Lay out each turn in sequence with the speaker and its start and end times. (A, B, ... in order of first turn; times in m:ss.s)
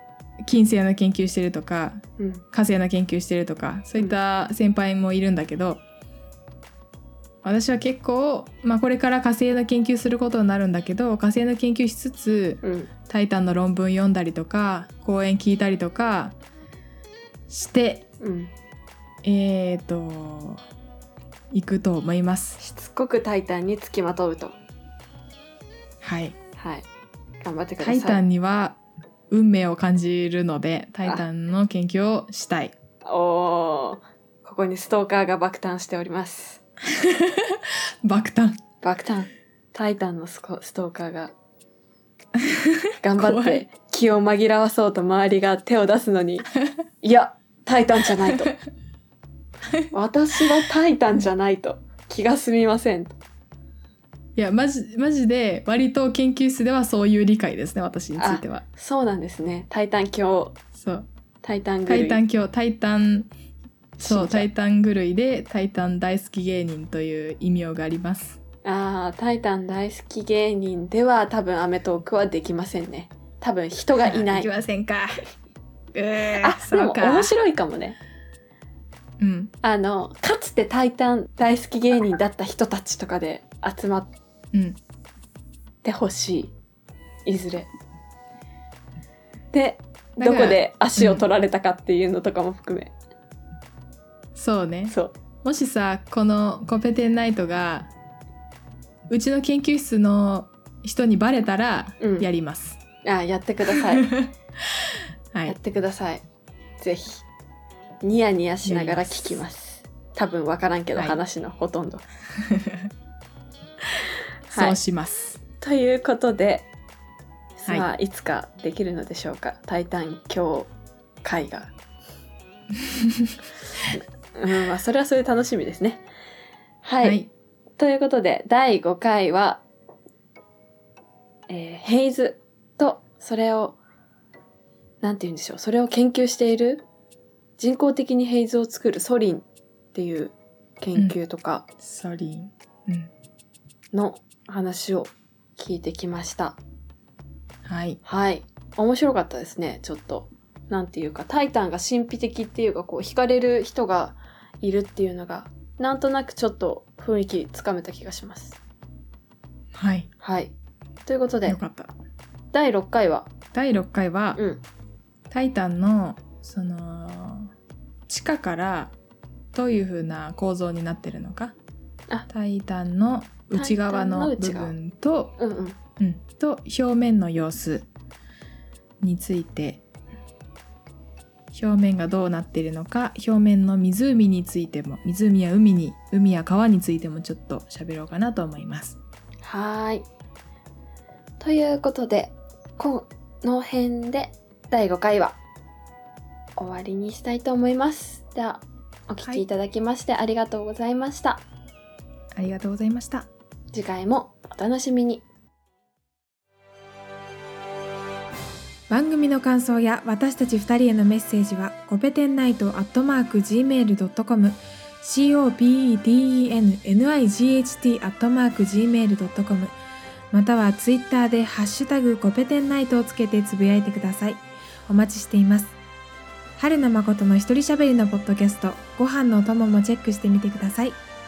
0:00.4-0:05.8 A
0:02.2-0:02.4 B
0:07.4-0:16.3 A
0:12.6-0:12.9 B
0:17.5-0:18.0 A
0:18.2-0:18.5 B
0:19.2-0:20.6 A
0:21.5-0:22.6 A
0:22.6-0:24.6 B
0:26.0-0:26.4 A
0:26.6-0:26.8 B
0:27.4-0:28.2 B
0:27.8-0:28.8 A
0:29.3-0:32.7 A
0:33.0-0:36.6 B
0:36.9-0:38.6 A
0:38.8-0:41.3 B
0:42.4-0:43.6 A
0:43.0-0:46.5 B
0:47.0-0:48.5 B
0:49.9-0:53.2 B
0:54.4-0:58.6 A
0:58.2-1:00.6 B
1:00.8-1:01.1 A
1:01.4-1:02.2 B
1:01.9-1:03.3 A
1:04.0-1:04.5 B
1:04.0-1:08.4 A
1:08.6-1:14.5 B
1:14.0-1:15.2 A
1:15.9-1:17.3 A
1:16.4-1:18.0 B
1:19.2-1:19.5 A
1:19.6-1:24.1 B
1:24.5-1:24.8 A
1:25.8-1:26.5 B
1:27.2-1:27.7 B
1:29.5-1:32.9 B
1:30.2-1:31.2 A
1:34.3-1:37.9 A
1:34.9-1:35.1 B
1:39.1-1:42.8 A
1:42.0-1:42.3 B
1:43.0-1:44.0 B
1:43.8-1:45.6 A
1:45.4-1:46.2 B
1:46.8-1:47.2 B
1:48.0-1:52.0 B
1:48.6-1:49.4 A
1:51.0-1:51.2 A
1:52.4-1:52.9 A
1:54.5-1:54.8 B
1:54.5-1:55.4 A
1:55.6-1:56.7 B
1:57.6-2:00.7 B
2:01.2-2:01.7 B
2:02.8-2:03.4 A
2:03.8-2:06.0 B
2:06.8-2:07.2 B
2:07.0-2:07.3 A
2:07.8-2:09.6 B
2:11.5-2:13.8 B
2:15.0-2:16.8 B
2:17.6-2:21.6 B
2:21.8-2:23.1 A
2:23.9-2:26.6 B
2:27.6-2:28.0 A
2:28.0-2:38.6 B
2:39.7-2:40.1 A
2:40.2-2:40.5 B
2:41.0-2:41.6 B
2:41.5-2:41.9 A
2:42.5-2:43.3 B
2:43.5-2:44.4 A
2:44.4-2:44.6 B
2:45.3-2:47.5 A
2:48.1-2:48.9 A
2:49.5-2:51.5 A
2:52.3-2:55.3 A
2:53.5-2:54.7 B
2:55.4-2:55.8 B
2:56.0-2:57.9 A
2:59.0-2:59.8 A
3:01.5-3:09.0 A
3:09.4-3:10.0 B
3:11.4-3:15.4 B
3:16.6-3:21.4 B
3:22.3-3:23.3 A
3:23.7-3:25.2 B
3:28.9-3:39.7 A
3:40.3-3:45.8 A
3:46.6-3:51.0 A